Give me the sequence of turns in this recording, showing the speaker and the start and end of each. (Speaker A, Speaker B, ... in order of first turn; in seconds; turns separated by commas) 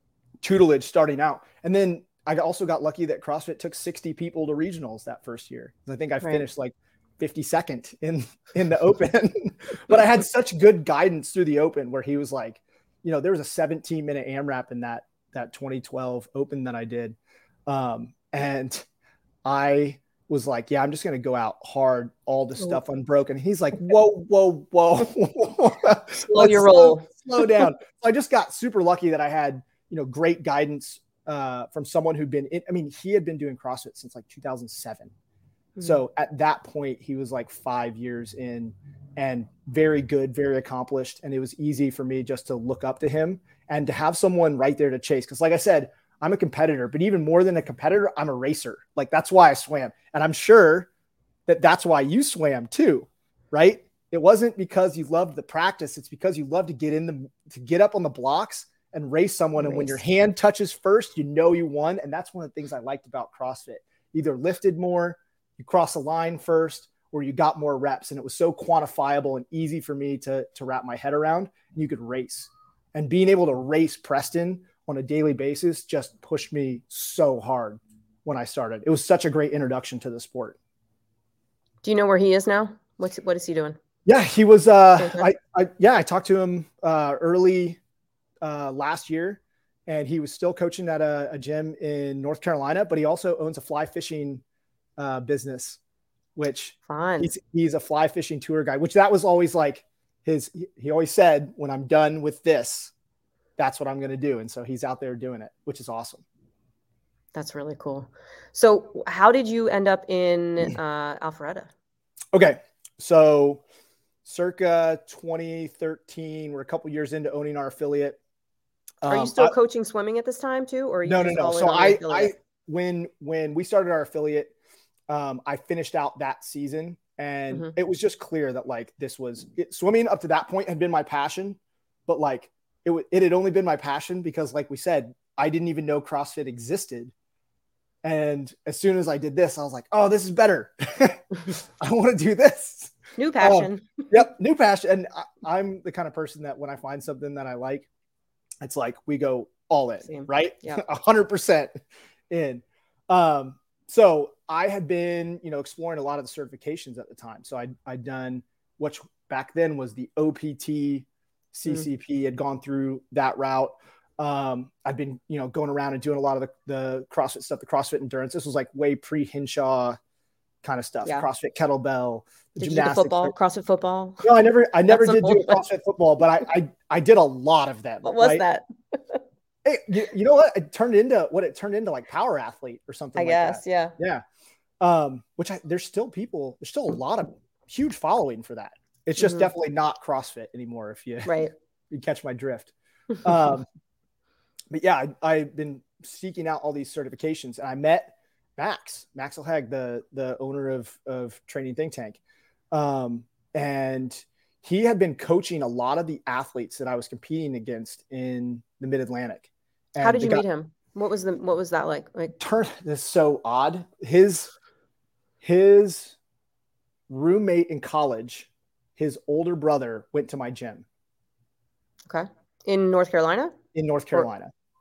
Speaker A: 0.4-17.1, Speaker A: 17.7-18.9, Speaker A: 19.4-35.1, Speaker B: 26.2-27.6, Speaker B: 35.8-36.0, Speaker A: 35.8-50.9, Speaker A: 51.5-80.6, Speaker B: 59.6-60.0, Speaker B: 81.8-83.8, Speaker A: 84.0-87.8, Speaker B: 85.0-85.2, Speaker A: 88.4-94.4, Speaker A: 95.0-95.8, Speaker A: 96.3-102.9, Speaker B: 96.9-97.3, Speaker A: 103.6-106.2, Speaker B: 107.3-111.7, Speaker A: 112.3-113.6, Speaker A: 114.2-118.2, Speaker A: 119.0-119.5, Speaker B: 119.1-122.3, Speaker A: 121.1-124.5, Speaker A: 125.1-137.1, Speaker A: 138.0-147.9, Speaker B: 143.2-144.1, Speaker A: 148.6-151.7, Speaker B: 150.1-150.8, Speaker A: 152.3-170.0, Speaker A: 170.6-173.3, Speaker B: 172.6-174.3, Speaker A: 174.2-178.4, Speaker B: 174.8-175.6, Speaker B: 178.0-179.2, Speaker A: 179.6-184.2, Speaker B: 183.2-183.9, Speaker A: 184.8-191.3, Speaker B: 189.2-189.5, Speaker B: 191.2-191.5, Speaker A: 191.9-192.7, Speaker A: 193.2-193.7, Speaker A: 194.7-202.2, Speaker A: 202.7-210.4, Speaker B: 210.0-212.3, Speaker A: 212.4-214.5, Speaker A: 215.4-216.2, Speaker A: 217.1-220.8, Speaker B: 222.1-223.5, Speaker A: 223.7-224.5